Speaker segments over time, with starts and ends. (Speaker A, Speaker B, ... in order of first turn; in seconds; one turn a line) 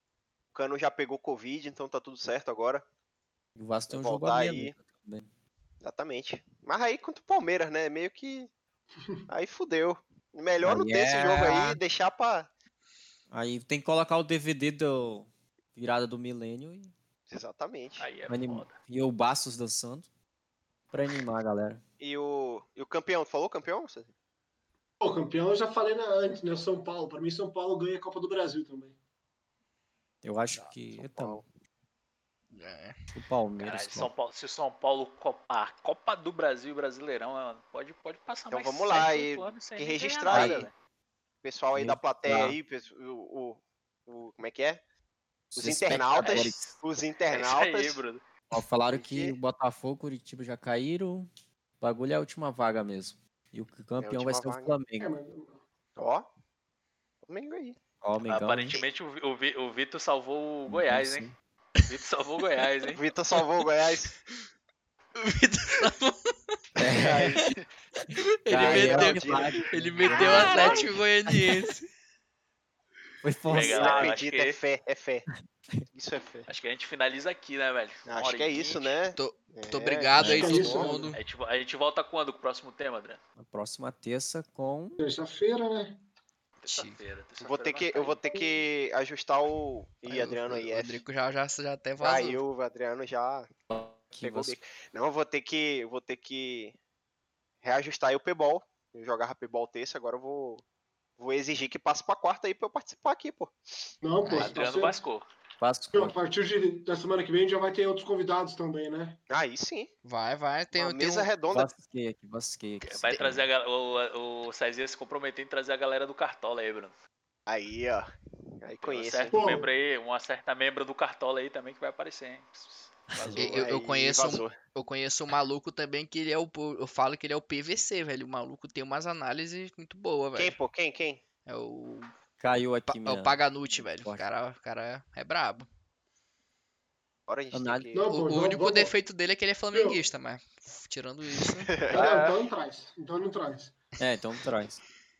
Speaker A: 0.5-2.8
Speaker B: 3.5-5.3
Speaker A: 3.9-4.7
Speaker A: 5.8-8.5
Speaker A: 9.3-12.5
Speaker B: 10.6-11.8
Speaker B: 13.3-16.9
Speaker A: 17.3-18.1
Speaker C: 18.0-18.8
Speaker B: 18.3-20.1
Speaker B: 20.9-21.8
Speaker A: 22.0-24.1
Speaker D: 25.0-28.9
Speaker B: 30.2-31.4
Speaker A: 30.9-31.4
Speaker E: 32.5-33.0
Speaker B: 33.1-34.1
Speaker C: 33.6-40.7
Speaker A: 38.5-40.7
Speaker B: 40.3-40.6
Speaker A: 41.4-44.8
Speaker B: 41.7-42.6
Speaker B: 45.5-46.7
Speaker A: 45.5-48.0
Speaker C: 45.9-46.7
Speaker C: 47.3-48.2
Speaker B: 48.5-51.3
Speaker A: 48.9-49.4
Speaker B: 51.8-55.1
Speaker A: 54.0-54.7
Speaker D: 55.0-55.6
Speaker A: 56.0-56.3
Speaker A: 57.2-57.8
Speaker B: 58.0-58.8
Speaker C: 58.2-61.3
Speaker B: 60.7-61.3
Speaker C: 61.9-63.0
Speaker A: 62.9-64.1
Speaker E: 65.2-66.2
Speaker B: 66.8-67.5
Speaker A: 66.8-67.7
Speaker E: 68.2-71.8
Speaker B: 68.5-71.4
Speaker A: 68.5-70.9
Speaker B: 73.2-74.2
Speaker C: 73.5-74.6
Speaker A: 73.5-75.3
Speaker A: 75.9-76.5
Speaker C: 76.5-79.0
Speaker A: 78.1-80.9
Speaker E: 79.2-81.2
Speaker B: 80.2-80.6
Speaker D: 80.2-81.1
Speaker C: 81.1-83.2
Speaker B: 83.4-85.0
Speaker D: 85.0-86.0
Speaker C: 86.6-88.2
Speaker E: 86.7-87.0
Speaker A: 87.4-91.0
Speaker E: 90.1-92.4
Speaker A: 92.0-93.5
Speaker B: 93.7-94.6
Speaker A: 94.2-96.8
Speaker A: 97.6-100.6
Speaker A: 101.2-103.5
Speaker D: 104.0-105.0
Speaker C: 104.2-105.2
Speaker B: 105.6-106.1
Speaker D: 105.9-109.2
Speaker A: 109.3-109.9
Speaker E: 110.0-111.3
Speaker A: 110.7-111.7
Speaker B: 111.5-113.5
Speaker C: 112.8-116.9
Speaker E: 113.1-113.3
Speaker A: 117.5-118.1
Speaker A: 118.6-119.6
Speaker C: 118.8-123.7
Speaker D: 119.3-119.7
Speaker E: 123.4-130.6
Speaker A: 123.5-124.5
Speaker A: 130.3-131.2
Speaker E: 131.5-132.1
Speaker B: 132.4-134.2
Speaker E: 132.9-135.7
Speaker A: 137.3-138.1
Speaker B: 137.5-137.9
Speaker D: 137.9-138.9
Speaker E: 138.1-141.8
Speaker D: 139.7-140.0
Speaker A: 141.7-142.1
Speaker C: 141.9-142.4
Speaker D: 141.9-143.8
Speaker B: 144.0-144.8